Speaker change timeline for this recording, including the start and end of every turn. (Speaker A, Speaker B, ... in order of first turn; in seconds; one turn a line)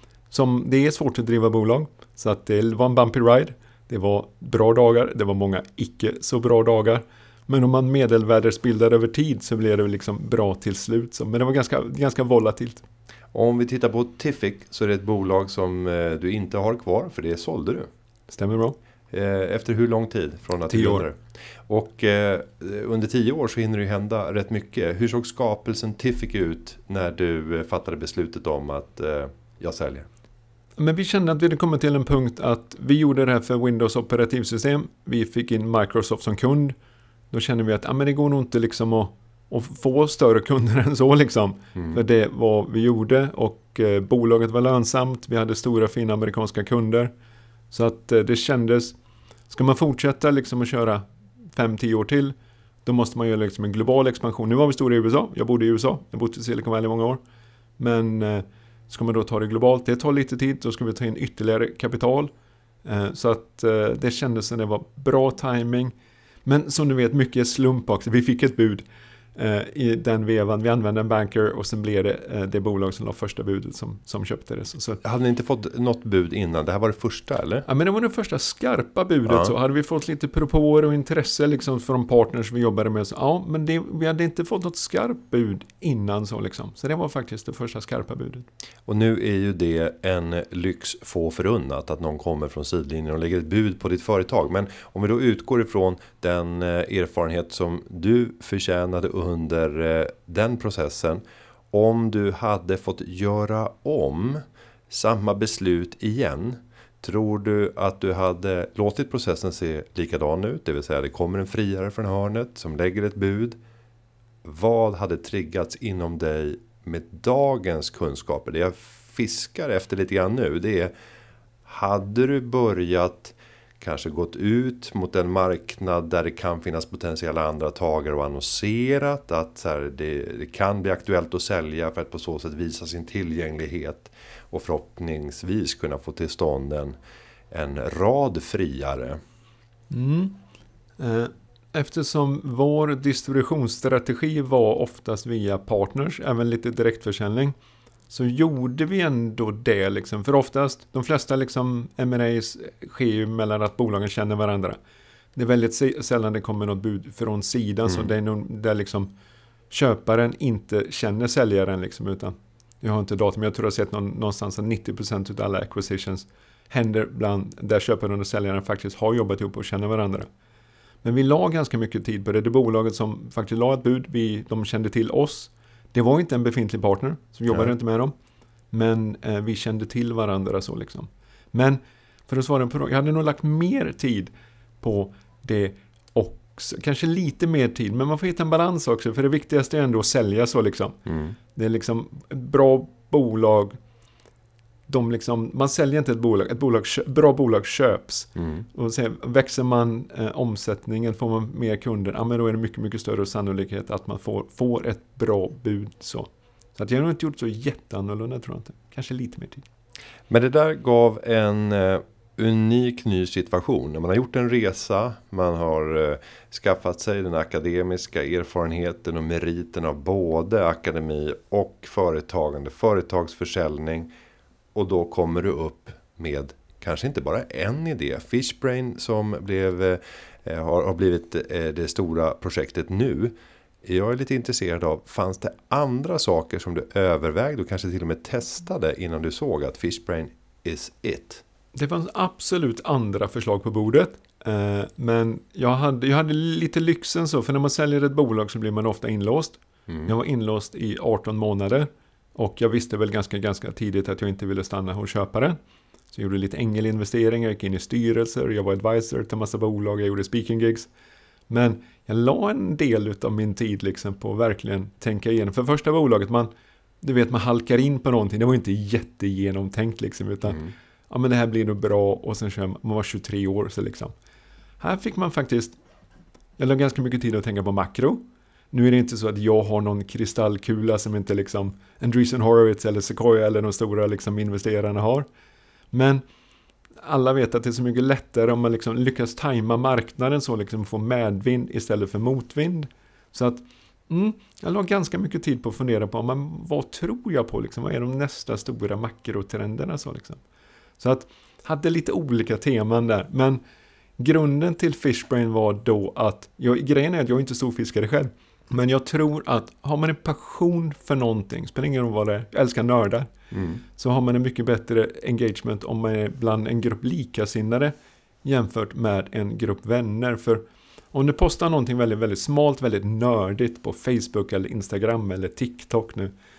Speaker A: 0.3-12.8
Speaker B: 13.3-17.9
Speaker A: 18.3-18.8
Speaker B: 19.1-30.1
Speaker A: 20.7-21.1
Speaker A: 30.8-36.8
Speaker A: 37.3-47.1
Speaker A: 47.7-49.0
Speaker A: 49.5-57.2
Speaker A: 57.8-62.3
Speaker A: 62.9-65.9
Speaker A: 66.5-68.8
Speaker A: 69.3-75.0
Speaker B: 75.0-77.7
Speaker A: 77.7-88.5
Speaker B: 79.3-79.5
Speaker B: 88.9-113.6
Speaker B: 114.4-120.9
Speaker B: 121.7-136.9
Speaker B: 137.5-139.2
Speaker A: 139.9-140.4
Speaker A: 141.0-147.6
Speaker A: 148.1-154.8
Speaker A: 155.3-159.1
Speaker A: 159.7-170.3
Speaker A: 171.0-178.1
Speaker A: 178.7-191.0
Speaker B: 191.1-191.4
Speaker A: 191.6-193.8
Speaker A: 194.9-209.6
Speaker B: 198.4-198.7
Speaker B: 210.3-224.1
Speaker B: 224.8-241.4
Speaker A: 241.8-255.6
Speaker A: 256.1-260.9
Speaker A: 261.5-266.5
Speaker A: 267.0-274.1
Speaker A: 274.8-275.8
Speaker A: 276.6-285.3
Speaker A: 285.9-286.2
Speaker A: 287.0-300.4
Speaker A: 301.0-303.6
Speaker A: 304.2-313.3
Speaker B: 313.5-313.8
Speaker A: 314.0-326.3